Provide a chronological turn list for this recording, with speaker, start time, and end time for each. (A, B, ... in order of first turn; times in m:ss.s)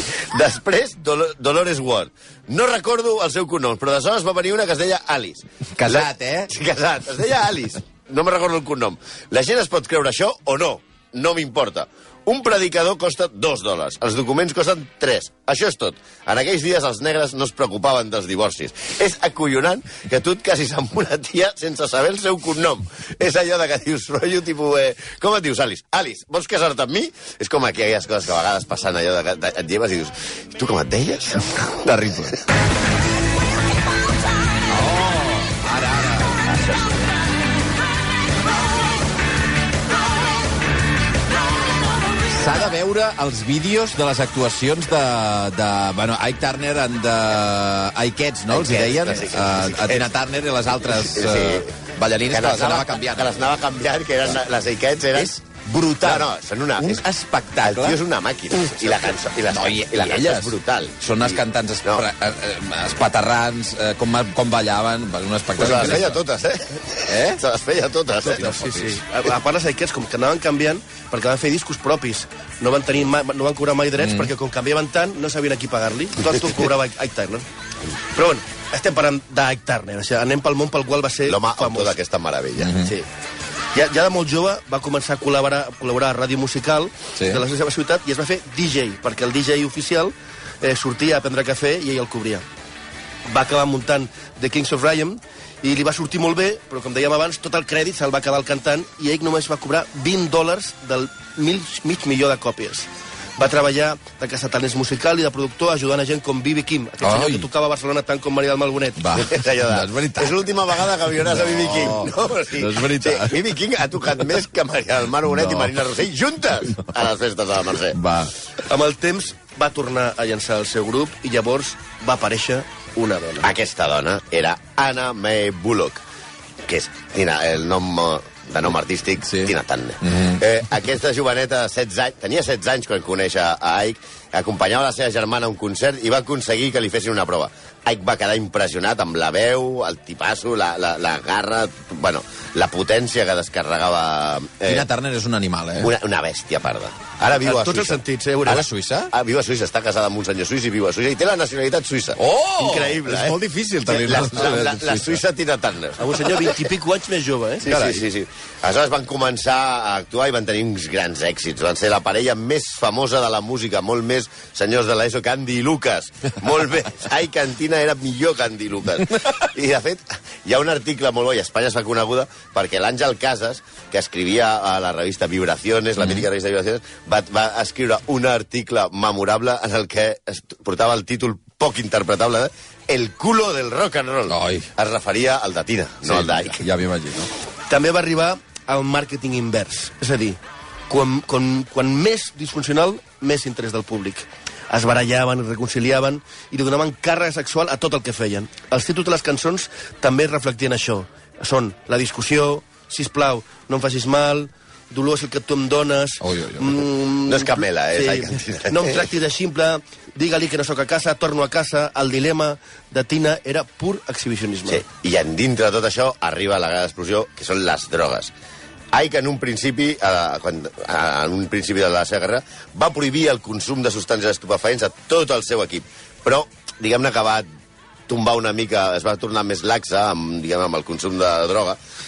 0:00.3-0:31.8 A
0:05.7-0:06.5 B
0:31.8-0:32.4 B
0:34.7-0:36.6 B
0:42.3-0:53.4 B
0:48.5-0:50.1 A
0:50.9-0:51.7 A
0:52.3-0:55.3 A
0:55.1-0:58.0 B
0:56.0-0:57.0 A
0:57.6-1:02.0 A
0:58.6-1:06.2 B
1:05.6-1:08.4 A
1:07.0-1:07.4 B
1:08.2-1:09.0 B
1:08.3-1:17.4 C
1:14.0-1:14.3 B
1:18.1-1:22.0 C
1:21.2-1:22.8 A
1:22.6-1:22.9 B
1:22.8-1:23.0 C
1:23.7-1:32.4 C
1:33.3-1:49.0 C
1:47.0-1:47.4 B
1:49.0-1:50.4 B
1:49.1-1:58.0 A
1:51.2-1:53.4 B
1:55.3-1:55.8 B
1:57.9-1:58.3 B
1:58.7-2:03.5 C
2:03.4-2:06.0 A
2:06.6-2:24.9 A
2:09.3-2:10.4 B
2:24.7-2:25.9 B
2:25.8-2:36.6 A
2:27.4-2:28.6 C
2:28.4-2:29.1 B
2:32.2-2:35.2 B
2:36.0-2:38.0 C
2:37.6-3:06.6 A
2:37.7-2:37.9 B
2:56.0-2:56.2 B
3:04.3-3:04.7 B
3:06.0-3:07.3 B
3:07.7-3:34.8 C
3:26.2-3:26.8 B
3:27.3-3:29.1 A
3:34.7-3:38.3 A
3:38.9-3:47.4 A
3:48.1-3:51.8 A